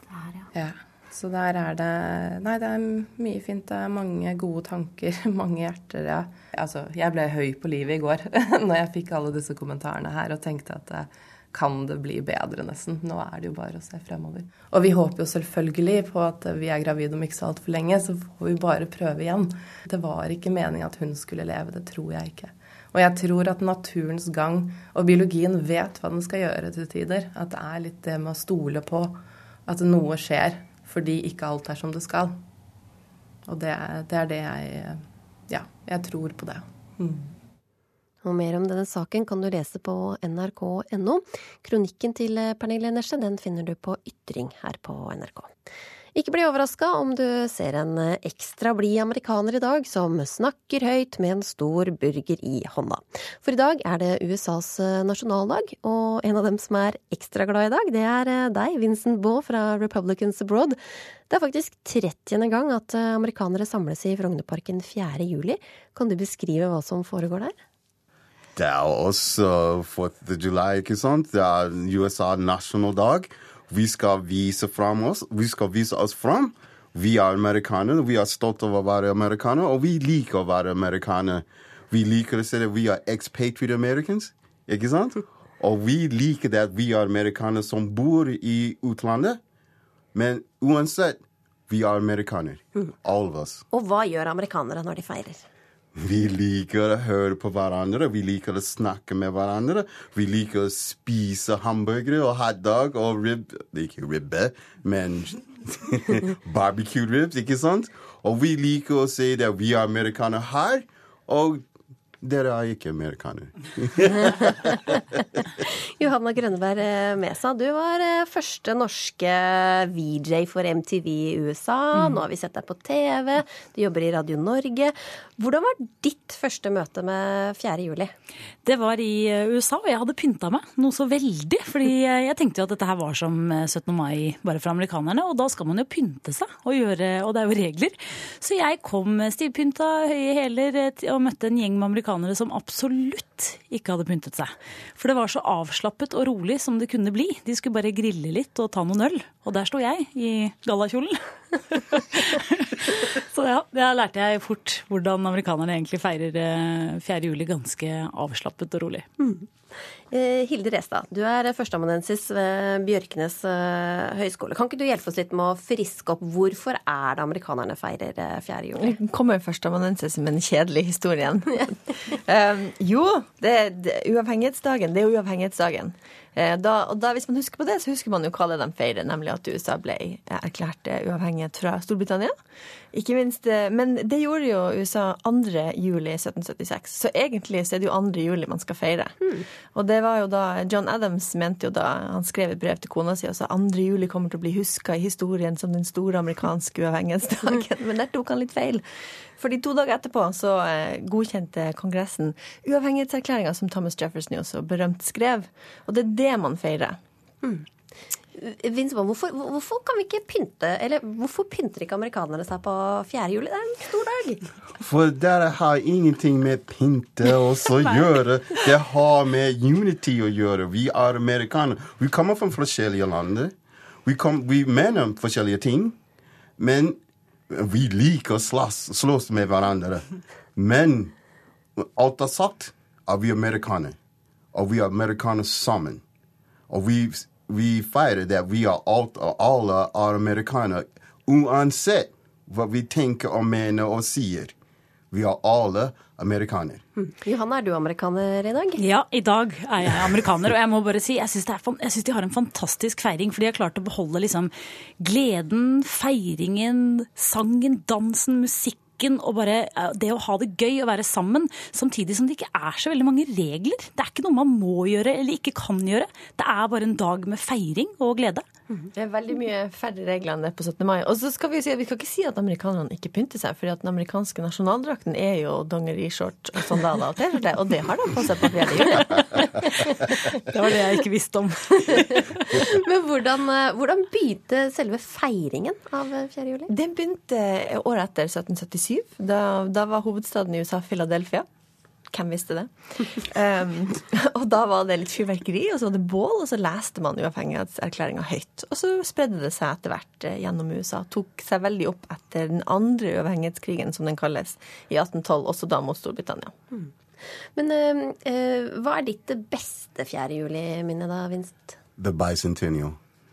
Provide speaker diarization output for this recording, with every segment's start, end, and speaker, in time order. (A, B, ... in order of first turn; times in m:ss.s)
0:00.5-0:32.4 A
0:33.5-0:37.3 A
0:38.2-0:45.5 B
0:46.2-1:00.8 B
1:01.3-1:07.5 B
1:08.6-1:29.4 C
1:30.1-1:33.6 C
1:33.7-1:35.4 B
1:36.0-1:51.6 C
1:52.2-1:54.6 C
1:56.0-2:08.1 B
2:08.6-2:31.2 D
2:31.7-2:39.1 D
2:39.2-2:39.5 B
2:40.1-2:49.0 B
2:49.0-3:02.4 E
3:02.9-3:09.2 E
3:09.7-3:27.0 E
3:28.4-3:34.4 B
3:34.8-3:43.5 C
3:44.0-3:46.0 C
3:46.6-3:47.0 C
3:47.5-3:50.0 C
3:50.6-3:51.1 C
3:51.8-3:54.0 C
3:54.5-3:56.0 C
3:56.7-4:04.5 C
4:05.1-4:06.8 C
4:07.0-4:08.8 B
4:08.8-4:28.5 D
4:28.9-4:39.2 E
4:40.5-4:42.2 D
4:42.6-4:46.7 B
4:46.7-4:51.5 E
4:52.1-5:06.5 E
5:07.6-5:11.8 B
5:12.0-5:13.0 C